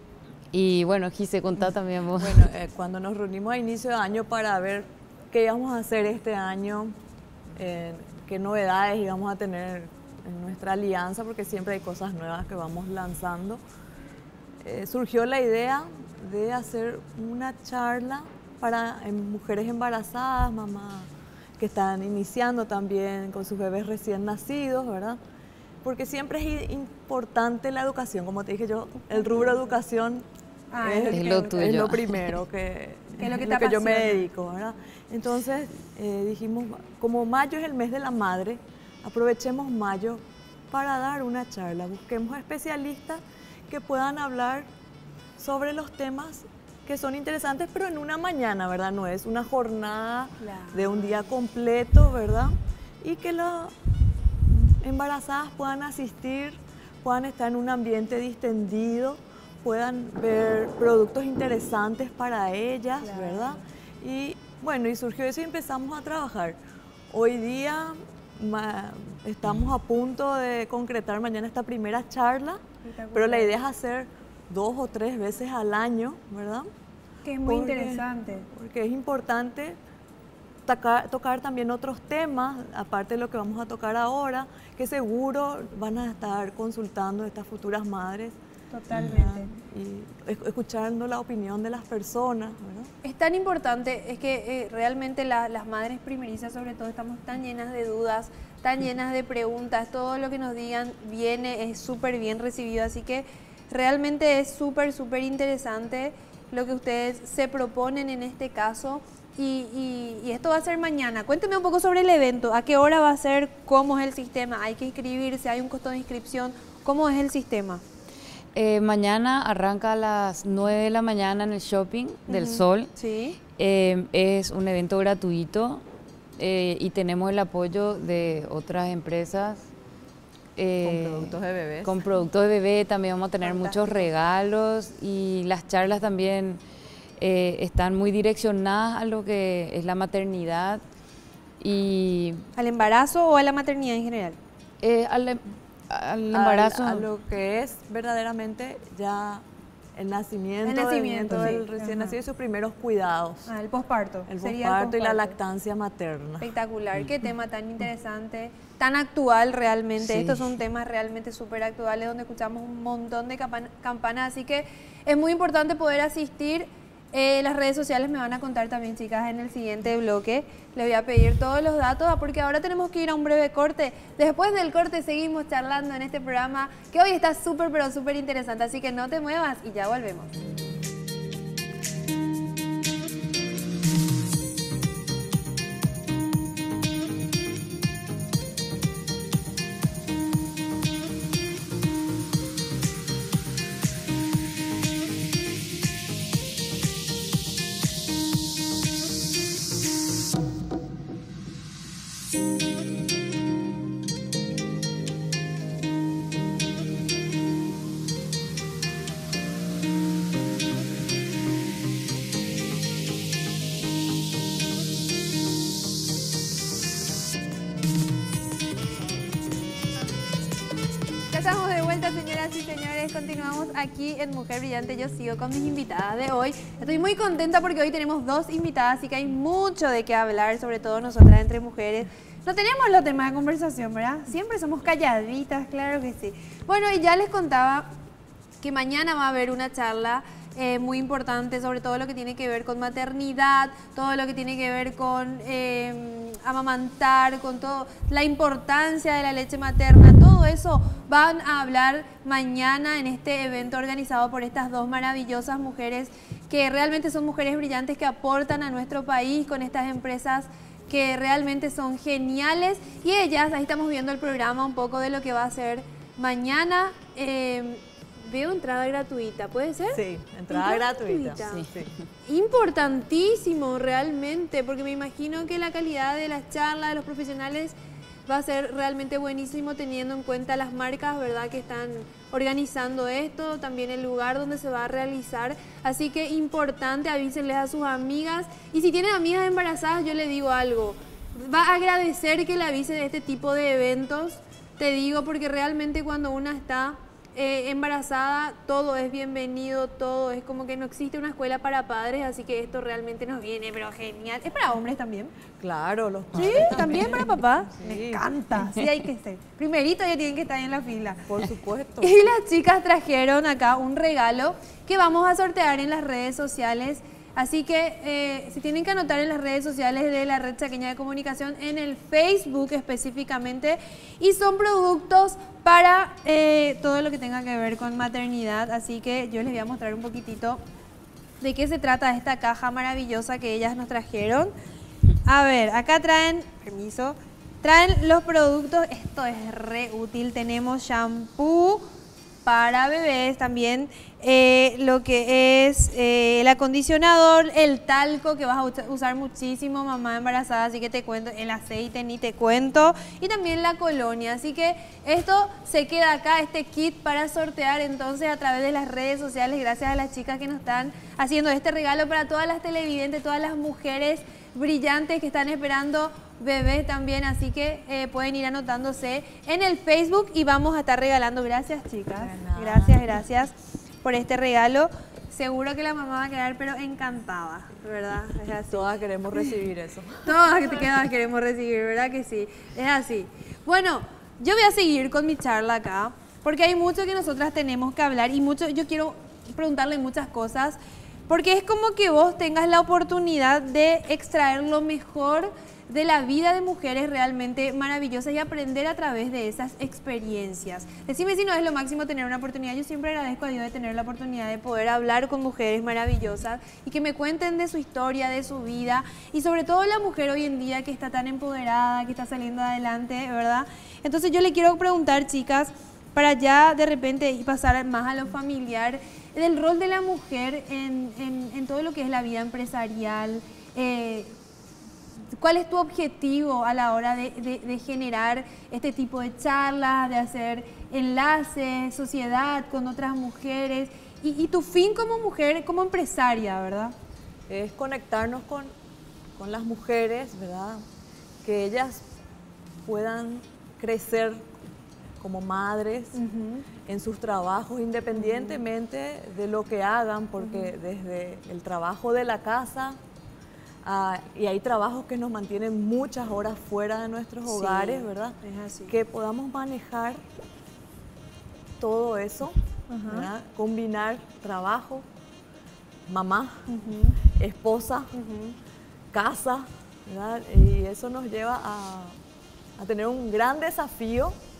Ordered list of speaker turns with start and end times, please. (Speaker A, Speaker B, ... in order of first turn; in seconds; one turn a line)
Speaker A: 0.5-2.5
Speaker B: 2.2-7.0
Speaker B: 7.5-13.6
Speaker B: 14.6-25.2
Speaker B: 25.8-30.3
Speaker C: 30.7-31.9
Speaker B: 30.8-44.7
Speaker A: 31.1-32.2
Speaker C: 33.2-34.2
Speaker B: 45.4-53.8
Speaker C: 50.4-51.3
Speaker B: 54.4-66.6
Speaker C: 63.0-63.6
Speaker B: 67.1-72.6
Speaker C: 72.8-73.6
Speaker B: 73.1-76.7
Speaker C: 77.2-78.5
Speaker B: 77.4-79.8
Speaker B: 80.7-88.4
Speaker C: 88.7-89.5
Speaker B: 88.9-92.9
Speaker C: 93.0-117.8
Speaker A: 118.5-122.9
Speaker C: 122.3-123.4
Speaker A: 123.6-125.8
Speaker A: 126.4-129.7
Speaker A: 130.6-136.6
Speaker B: 130.8-131.9
Speaker C: 133.4-134.1
Speaker A: 137.2-140.8
Speaker A: 141.6-142.4
Speaker C: 142.6-144.4
Speaker A: 144.8-147.1
Speaker B: 146.3-149.4
Speaker B: 149.9-153.5
Speaker C: 150.6-152.2
Speaker C: 153.5-155.4
Speaker B: 154.3-156.5
Speaker C: 156.4-180.3
Speaker A: 160.0-160.5
Speaker C: 221.3-237.9
Speaker C: 238.6-271.7
Speaker B: 269.9-271.9
Speaker C: 272.2-305.3
Speaker B: 305.6-308.3
Speaker C: 306.3-311.2
Speaker B: 311.3-312.2
Speaker C: 312.0-330.6
Speaker C: 331.4-334.5
Speaker C: 335.2-341.8
Speaker C: 342.4-379.5
Speaker B: 372.2-373.1
Speaker B: 378.7-380.4
Speaker C: 380.2-390.8
Speaker C: 391.3-424.3
Speaker C: 425.4-436.9
Speaker B: 437.5-438.7
Speaker B: 439.4-440.8
Speaker B: 441.4-442.1
Speaker B: 442.8-444.5
Speaker B: 445.2-446.2
Speaker C: 446.1-446.6
Speaker B: 446.9-453.0
Speaker C: 448.1-448.6
Speaker C: 450.4-450.7
Speaker B: 453.8-458.4
Speaker C: 457.4-458.9
Speaker B: 458.9-460.2
Speaker B: 461.8-465.1
Speaker C: 462.9-463.3
Speaker B: 466.1-466.7
Speaker C: 466.7-467.2
Speaker B: 467.2-468.1
Speaker C: 468.1-468.6
Speaker B: 469.1-472.2
Speaker B: 472.8-474.4